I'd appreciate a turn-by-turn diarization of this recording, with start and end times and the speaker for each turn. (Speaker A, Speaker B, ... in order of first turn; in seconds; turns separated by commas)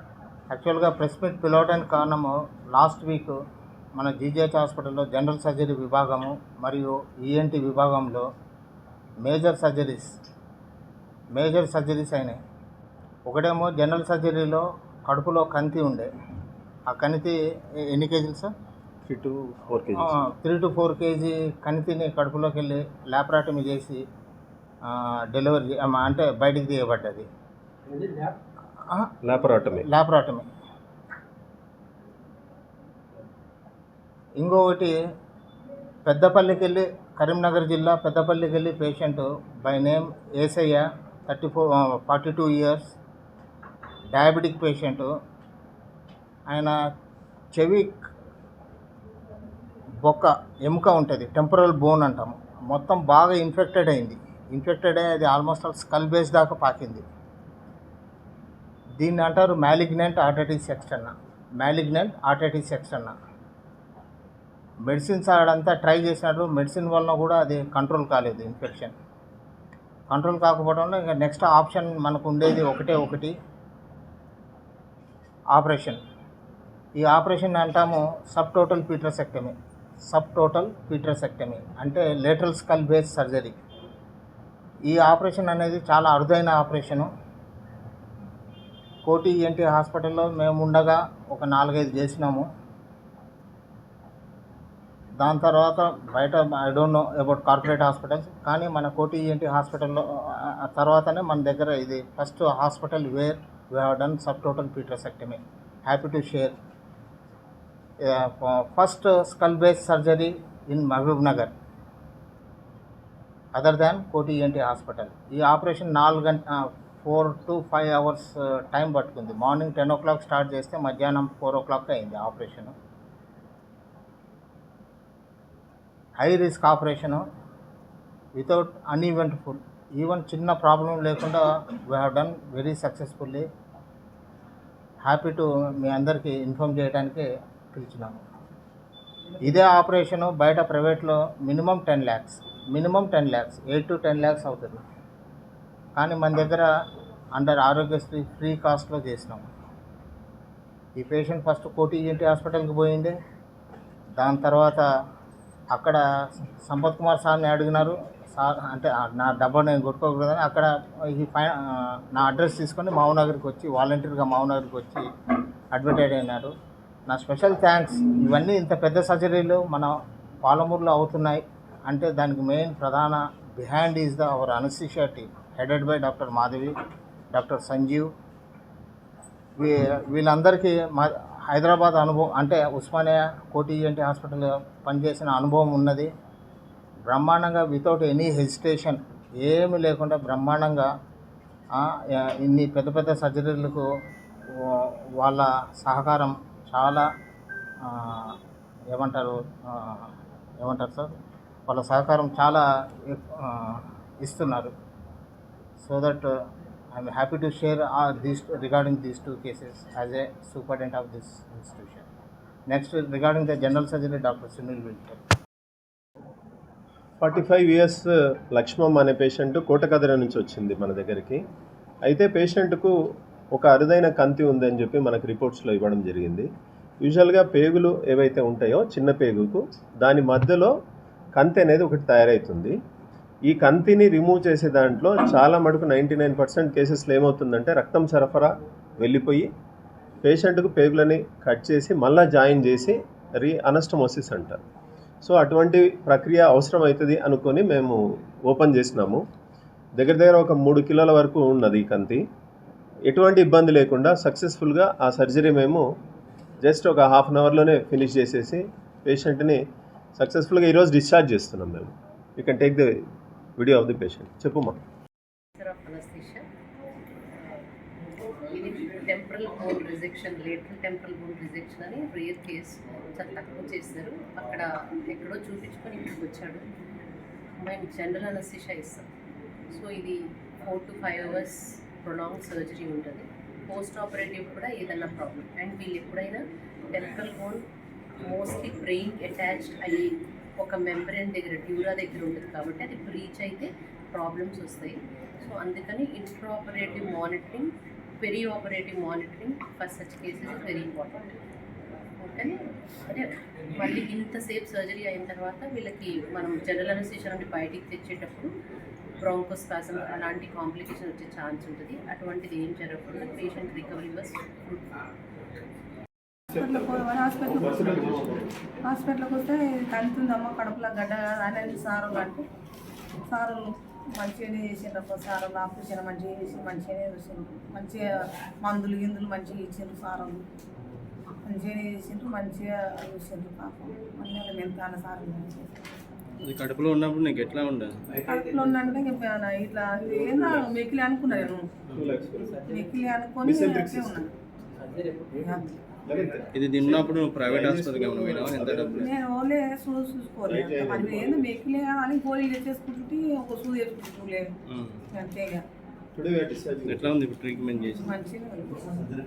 Speaker A: 0.5-3.4, Speaker A: 4.0-8.3, Speaker A: 9.2-10.2, Speaker A: 11.3-12.4, Speaker A: 13.2-16.1, Speaker A: 16.9-18.5, Speaker B: 19.0-20.1, Speaker A: 19.9-24.0, Speaker A: 24.8-27.3, Speaker A: 28.9-29.1, Speaker B: 29.2-29.9, Speaker A: 29.8-30.5, Speaker A: 34.4-35.0, Speaker A: 36.0-42.9, Speaker A: 44.1-45.1, Speaker A: 46.5-46.8, Speaker A: 47.5-48.0, Speaker A: 50.0-57.0, Speaker A: 59.0-63.1, Speaker A: 64.8-68.9, Speaker A: 70.1-73.3, Speaker A: 75.5-76.0, Speaker A: 77.0-79.5, Speaker A: 80.1-83.5, Speaker A: 84.9-87.1, Speaker A: 89.0-92.5, Speaker A: 95.2-106.5, Speaker A: 108.0-111.5, Speaker A: 113.5-122.7, Speaker A: 126.2-127.2, Speaker A: 128.3-133.5, Speaker A: 135.0-138.2, Speaker A: 139.4-144.8, Speaker A: 145.9-146.7, Speaker A: 147.3-149.5, Speaker A: 150.9-153.1, Speaker A: 154.2-154.8, Speaker A: 155.7-156.0, Speaker A: 156.6-165.1, Speaker A: 165.7-166.5, Speaker A: 167.1-176.7, Speaker A: 177.3-178.1, Speaker A: 179.6-186.1, Speaker A: 187.1-190.9, Speaker A: 191.7-193.9, Speaker A: 194.5-197.1, Speaker A: 197.8-198.4, Speaker A: 198.9-201.1, Speaker A: 201.7-204.7, Speaker A: 205.8-212.1, Speaker A: 212.7-215.2, Speaker B: 217.2-221.4, Speaker B: 222.0-222.9, Speaker B: 223.5-226.5, Speaker B: 227.0-230.7, Speaker B: 231.3-232.7, Speaker B: 233.5-239.5, Speaker B: 240.2-244.6, Speaker B: 245.2-248.0, Speaker B: 248.5-249.2, Speaker B: 250.0-252.2, Speaker B: 253.1-255.8, Speaker B: 256.6-259.6, Speaker B: 260.2-262.9, Speaker B: 263.6-264.8, Speaker C: 265.6-266.4, Speaker C: 268.5-276.6, Speaker C: 277.6-279.1, Speaker C: 279.7-287.6, Speaker C: 288.2-301.4, Speaker C: 302.2-308.5, Speaker C: 309.2-314.9, Speaker D: 316.5-322.4, Speaker B: 316.5-318.5, Speaker D: 323.3-330.4, Speaker D: 331.4-335.7, Speaker E: 336.4-338.0, Speaker D: 338.2-341.7, Speaker B: 340.2-340.6, Speaker B: 341.9-342.7, Speaker D: 342.6-344.3, Speaker B: 343.4-344.2, Speaker D: 345.3-345.7, Speaker B: 346.1-349.2, Speaker E: 346.5-349.1, Speaker D: 349.0-354.5, Speaker B: 350.4-351.5, Speaker E: 354.7-355.0, Speaker D: 355.1-355.6, Speaker B: 356.1-357.2, Speaker E: 356.8-358.0, Speaker D: 357.8-359.1